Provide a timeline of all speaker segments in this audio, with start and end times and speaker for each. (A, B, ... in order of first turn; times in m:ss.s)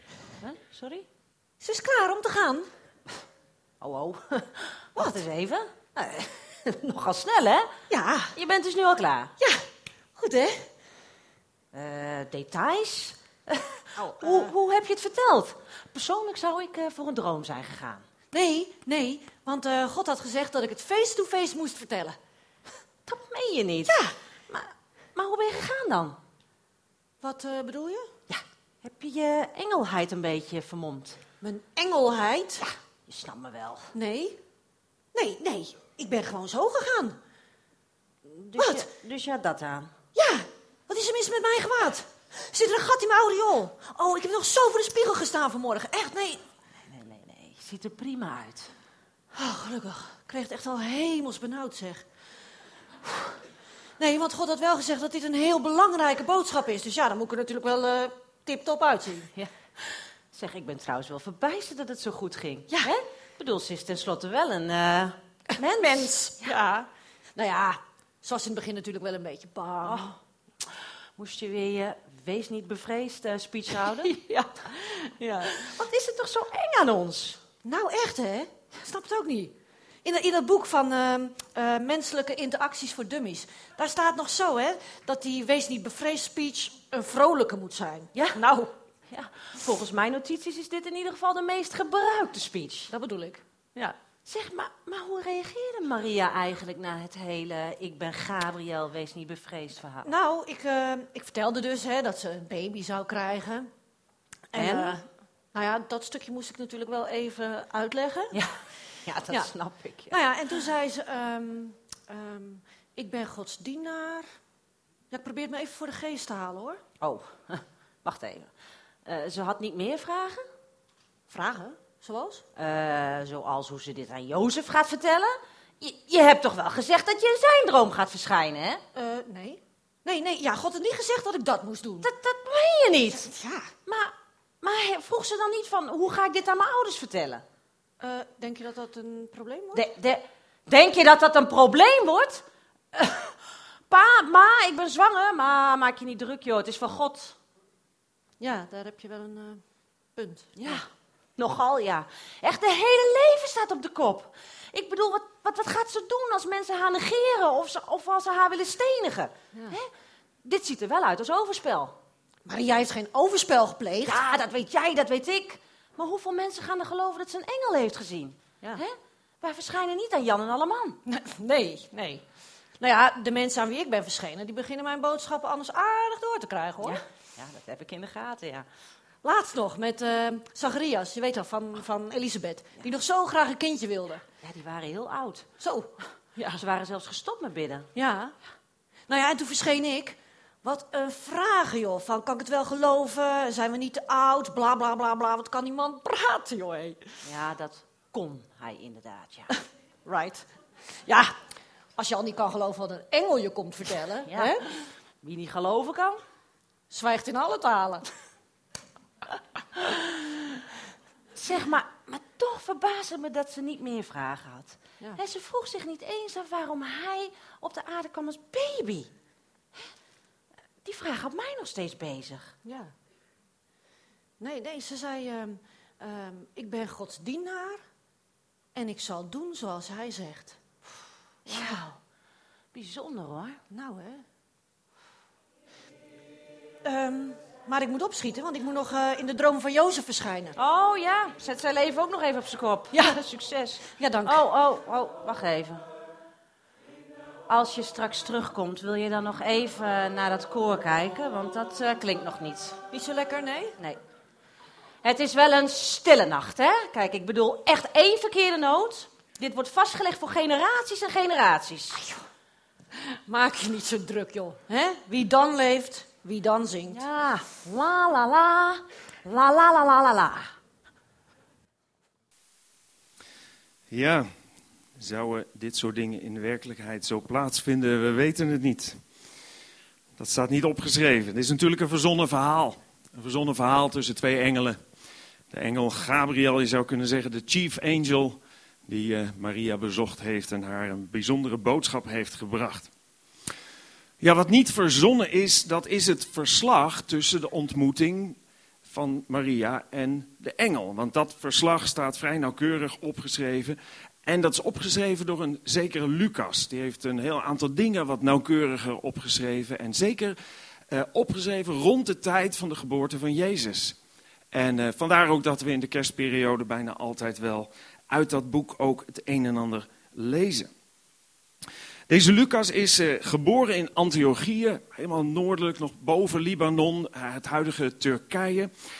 0:00.4-0:01.1 A
0:01.6-0:02.7 B
0:03.8-0:07.7 A
0:07.9-0:08.4 B
0:08.4-0:09.3 A
0:09.4-0:10.7 B
0:11.7-0:18.0 A
0:14.2-0:14.5 B
0:18.3-0:22.2 B
0:23.1-0:24.0 A
0:23.9-0:24.2 B
0:24.5-0:26.2 A
0:27.2-0:28.1 B
0:28.3-0:31.2 A
0:31.4-0:32.7 B
0:33.1-0:33.9 A
0:33.9-0:34.4 B
0:35.1-0:37.2 B
0:38.3-0:39.9 A
0:38.6-0:38.9 B
0:40.2-0:46.4 B
0:46.9-0:48.7 A
0:49.3-0:52.1 B
0:54.0-0:59.3 B
1:00.3-1:05.2 A
1:05.6-1:06.6 B
1:06.4-1:06.9 A
1:07.4-1:10.1 B
1:09.8-1:10.2 A
1:11.2-1:14.1 A
1:14.0-1:15.7 B
1:15.6-1:17.4 A
1:17.6-1:28.8 B
1:29.1-1:32.9 A
1:32.9-1:33.4 B
1:33.8-1:40.1 A
1:40.0-1:43.7 B
1:44.5-1:48.4 B
1:44.6-1:45.0 A
1:48.3-1:50.2 A
1:50.1-1:54.4 B
1:55.1-1:56.8 B
1:57.0-1:58.5 A
1:59.0-2:00.5 A
2:01.3-2:02.4 B
2:02.6-2:08.8 A
2:09.0-2:12.1 B
2:12.0-2:13.3 A
2:13.2-2:13.7 B
2:13.8-2:17.4 A
2:18.0-2:19.9 B
2:19.7-2:23.4 A
2:23.9-2:27.4 A
2:28.4-2:29.6 B
2:30.2-2:30.8 B
2:30.6-2:39.9 A
2:40.4-2:42.0 A
2:42.4-2:44.2 B
2:44.1-2:51.0 A
2:51.1-2:52.2 B
2:52.8-2:57.0 B
2:56.8-2:58.7 A
2:59.2-3:04.2 B
3:04.4-3:05.5 A
3:05.6-3:06.6 B
3:06.5-3:07.9 A
3:08.0-3:08.4 B
3:09.1-3:17.2 B
3:17.2-3:19.5 A
3:20.1-3:21.4 B
3:22.0-3:24.7 B
3:24.3-3:24.6 A
3:25.2-3:26.2 A
3:26.9-3:28.1 B
3:31.4-3:39.1 A
3:40.8-3:42.5 A
3:42.6-3:42.9 B
3:44.4-3:47.9 B
3:48.8-3:50.6 B
3:51.4-3:51.8 B
3:51.5-3:52.0 A
3:52.7-3:53.6 A
3:53.7-3:54.2 B
3:56.8-4:00.6 B
4:00.6-4:05.9 A
4:02.9-4:03.2 B
4:03.9-4:04.4 B
4:07.5-4:12.8 A
4:12.9-4:13.8 B
4:15.0-4:22.0 A
4:23.3-4:27.0 B
4:26.9-4:30.5 A
4:33.9-4:34.3 C
4:35.0-4:39.0 C
4:40.2-4:44.8 C
4:45.5-4:52.9 C
4:54.2-5:10.4 C
5:10.9-5:14.0 C
5:14.5-5:20.7 C
5:22.1-5:28.7 C